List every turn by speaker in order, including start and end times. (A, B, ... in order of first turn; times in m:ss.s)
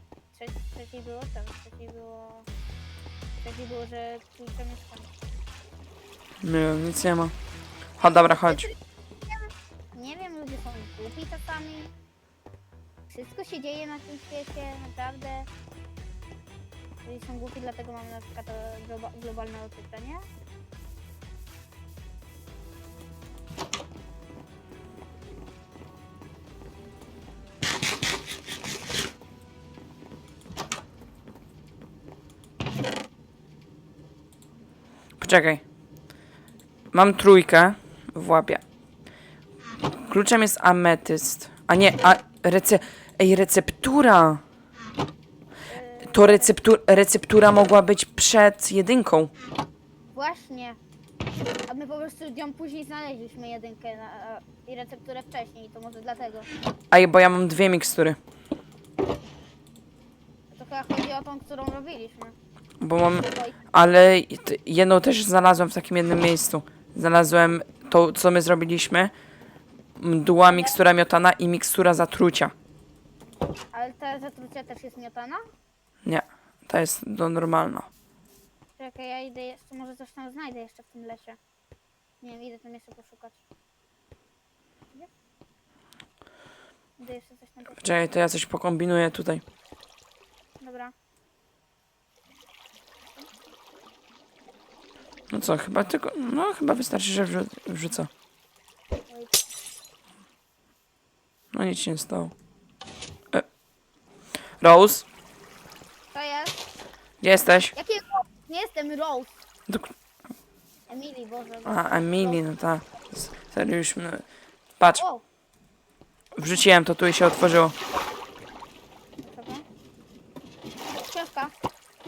0:00.3-0:02.5 A
0:03.4-0:05.1 A
0:06.4-0:07.3 B
0:08.0-0:08.7 B
0:08.0-0:08.8 A
0:09.3-0:11.9 A
0:13.1-0:15.5 A
0:17.0-0:20.2 A
0:35.2-0:35.6 B
0:36.9-0:38.6 B
0:40.0-0:44.4 B
0:45.7-0:46.5 A
0:46.1-0:49.3 B
0:50.1-0:50.8 A
0:51.7-0:56.5 A
0:56.9-0:58.2 B
1:00.5-1:02.3 A
1:02.8-1:09.1 B
1:03.2-1:03.6 A
1:10.0-1:12.5 B
1:10.5-1:10.8 A
1:13.7-1:15.4 A
1:16.0-1:17.9 B
1:18.8-1:21.4 A
1:22.2-1:23.4 A
1:27.0-1:27.8 A
1:27.8-1:29.4 B
1:30.6-1:30.9 A
1:35.3-1:38.1 B
1:39.1-1:39.4 A
1:41.5-1:42.3 B
1:44.6-1:45.1 B
1:46.1-1:46.6 A
1:47.2-1:47.7 B
1:47.7-1:49.4 A
1:49.7-1:49.9 B
1:50.9-1:52.4 A
1:51.6-1:54.2 B
1:54.8-1:55.0 B
1:54.9-1:55.2 A
1:56.4-1:57.8 B
1:59.2-1:59.6 A
2:00.9-2:01.5 A